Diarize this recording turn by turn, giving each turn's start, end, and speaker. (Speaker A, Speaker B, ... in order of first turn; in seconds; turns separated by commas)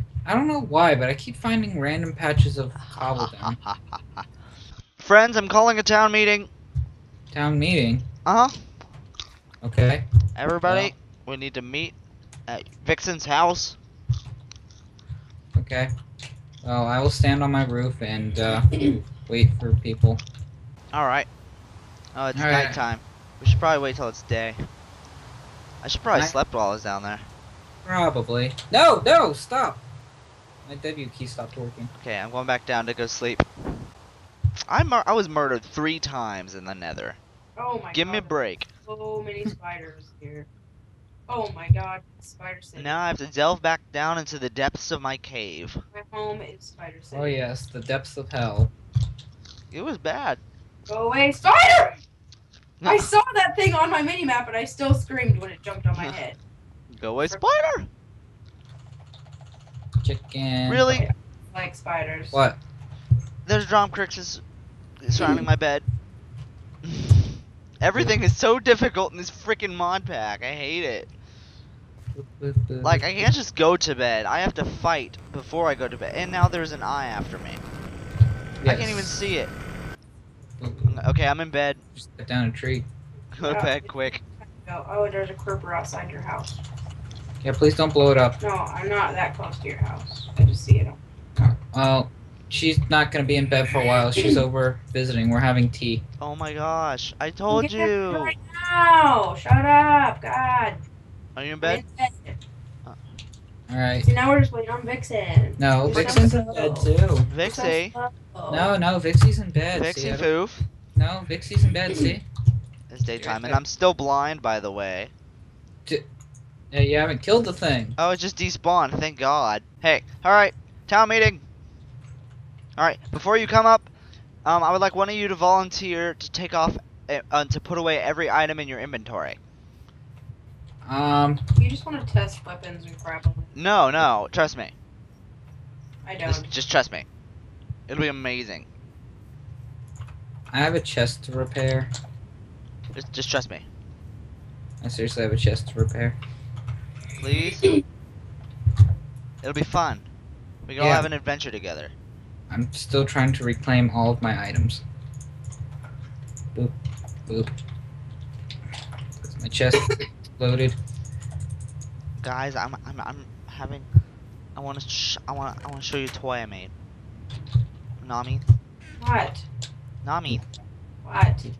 Speaker A: 0.2-3.6, Speaker B: 2.8-4.2, Speaker B: 5.0-6.5, Speaker A: 7.3-8.1, Speaker B: 8.2-8.5, Speaker A: 9.6-10.0, Speaker B: 10.3-11.9, Speaker A: 10.7-10.9, Speaker B: 12.5-13.8, Speaker A: 15.5-15.9, Speaker A: 16.6-20.2, Speaker B: 20.9-21.3, Speaker B: 22.1-24.6, Speaker A: 22.3-22.8, Speaker B: 25.8-27.2, Speaker A: 27.8-29.8, Speaker A: 30.6-31.9, Speaker B: 32.0-33.5, Speaker B: 34.7-37.2, Speaker C: 37.5-40.5, Speaker B: 37.9-38.7, Speaker C: 41.3-43.0, Speaker B: 42.8-45.8, Speaker C: 45.9-47.5, Speaker A: 47.1-48.7, Speaker B: 49.7-50.4, Speaker C: 50.9-52.0, Speaker B: 52.8-53.1, Speaker C: 52.8-56.4, Speaker B: 56.9-57.9, Speaker A: 60.0-61.0, Speaker B: 60.7-61.0, Speaker C: 60.9-62.4, Speaker A: 62.3-62.6, Speaker B: 63.5-64.4, Speaker B: 65.0-65.8, Speaker B: 66.8-71.1, Speaker A: 67.9-68.2, Speaker A: 72.1-73.3, Speaker B: 72.8-77.6, Speaker A: 78.6-79.2, Speaker B: 78.6-79.5, Speaker A: 80.6-81.0, Speaker B: 80.9-81.8, Speaker A: 82.0-82.8, Speaker B: 83.3-84.2, Speaker C: 83.4-86.6, Speaker A: 87.4-88.4, Speaker C: 88.4-91.0, Speaker A: 91.4-96.0, Speaker C: 94.1-94.4, Speaker B: 96.2-98.3, Speaker C: 97.5-100.8, Speaker B: 101.3-101.8, Speaker C: 101.6-102.4, Speaker A: 103.7-104.1, Speaker C: 104.0-108.7, Speaker A: 105.6-107.3, Speaker B: 105.8-106.3, Speaker B: 107.3-107.9, Speaker A: 108.5-110.3, Speaker B: 109.7-110.7, Speaker A: 111.0-112.2, Speaker B: 112.9-115.1, Speaker A: 113.1-113.6, Speaker A: 116.7-118.0, Speaker B: 118.0-121.4, Speaker B: 122.8-123.9, Speaker B: 124.4-129.4, Speaker A: 130.8-131.4, Speaker C: 131.6-133.6, Speaker B: 133.5-134.7, Speaker C: 136.0-136.5, Speaker B: 136.2-137.1, Speaker B: 137.9-138.7, Speaker A: 140.5-141.9, Speaker B: 142.9-143.7, Speaker A: 144.8-146.2, Speaker B: 147.2-147.8, Speaker B: 149.4-150.1, Speaker B: 150.6-151.9, Speaker A: 150.8-151.1, Speaker A: 152.5-154.8, Speaker A: 157.3-157.5, Speaker A: 159.2-160.7, Speaker B: 162.2-163.8, Speaker B: 164.6-166.7, Speaker B: 168.0-168.4, Speaker C: 169.0-169.4, Speaker B: 170.0-170.4, Speaker C: 171.0-171.5